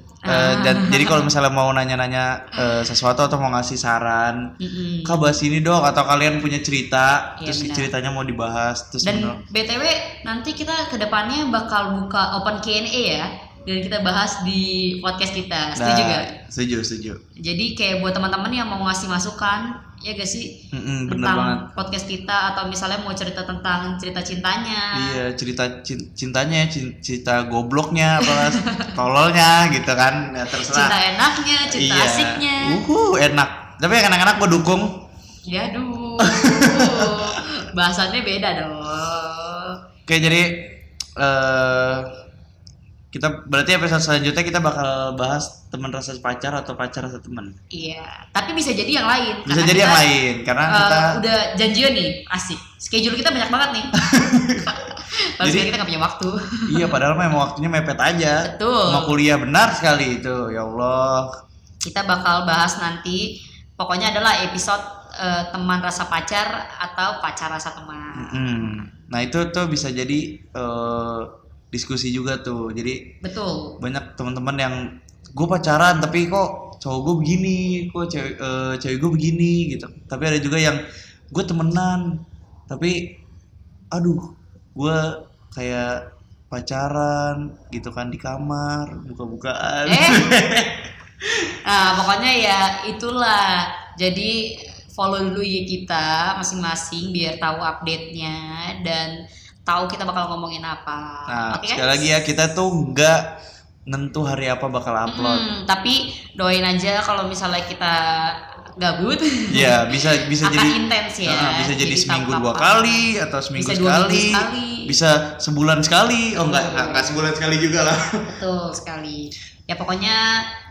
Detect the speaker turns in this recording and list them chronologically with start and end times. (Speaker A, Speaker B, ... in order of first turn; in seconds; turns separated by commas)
Speaker A: 0.2-1.3, Speaker B: 0.2-9.4, Speaker A: 2.5-2.9, Speaker A: 4.6-5.4, Speaker A: 7.4-7.9, Speaker A: 9.0-16.3, Speaker B: 15.8-17.2, Speaker A: 17.4-25.2, Speaker B: 20.7-21.6, Speaker B: 24.9-31.0, Speaker A: 28.2-29.0, Speaker A: 30.5-32.8, Speaker B: 31.6-35.0, Speaker A: 35.5-39.8, Speaker B: 36.2-37.4, Speaker B: 40.1-42.1, Speaker B: 43.1-47.6, Speaker A: 47.7-50.0, Speaker B: 49.4-51.2, Speaker A: 50.7-53.9, Speaker B: 54.0-55.7, Speaker A: 54.7-57.0, Speaker B: 56.7-61.3, Speaker A: 58.4-59.2, Speaker A: 61.8-68.8, Speaker B: 68.2-73.1, Speaker A: 73.2-73.8, Speaker B: 73.8-80.8, Speaker B: 81.3-83.2, Speaker B: 83.9-90.9, Speaker A: 89.8-90.3, Speaker A: 91.6-99.1, Speaker A: 99.7-102.0, Speaker B: 101.3-103.3, Speaker B: 103.9-105.5, Speaker A: 105.1-115.0, Speaker B: 109.5-118.3, Speaker A: 116.3-117.2, Speaker A: 118.3-120.5